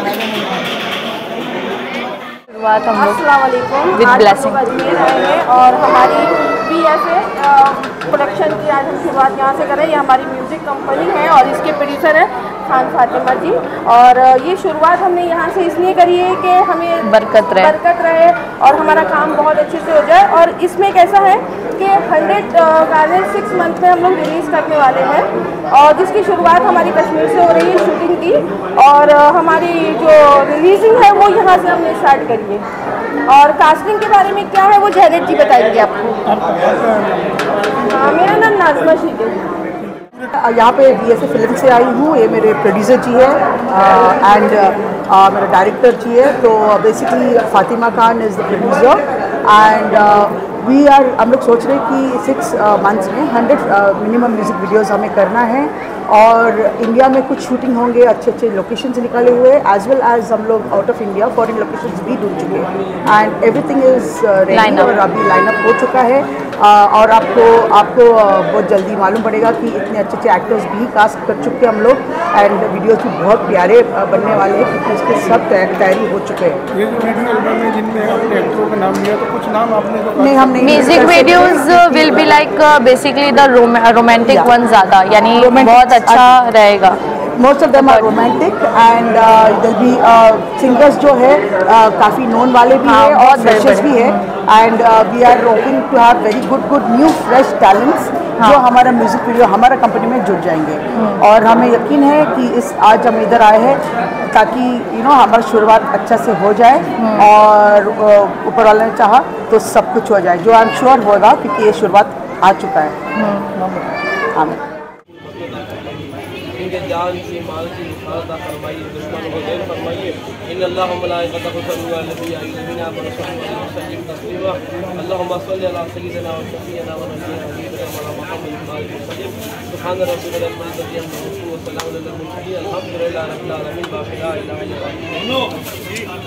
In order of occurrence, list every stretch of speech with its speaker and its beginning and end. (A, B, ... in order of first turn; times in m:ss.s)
0:02.5-0:03.2 A
0:02.9-0:32.6 B
0:03.9-0:04.6 A
0:17.0-0:17.8 A
0:33.3-0:36.2 B
0:36.3-0:37.4 C
0:37.8-0:39.4 B
0:40.3-1:16.6 D
1:04.5-1:05.0 A
1:16.7-1:21.2 C
1:20.2-1:22.3 D
1:20.6-1:27.0 A
1:24.3-1:24.6 D
1:25.3-1:26.4 D
1:27.4-1:53.0 D
1:27.8-1:28.1 A
1:32.8-1:34.2 A
1:40.9-1:41.2 A
1:47.0-1:47.3 A
1:53.2-1:53.7 A
1:53.5-1:54.6 D
1:55.2-2:15.5 E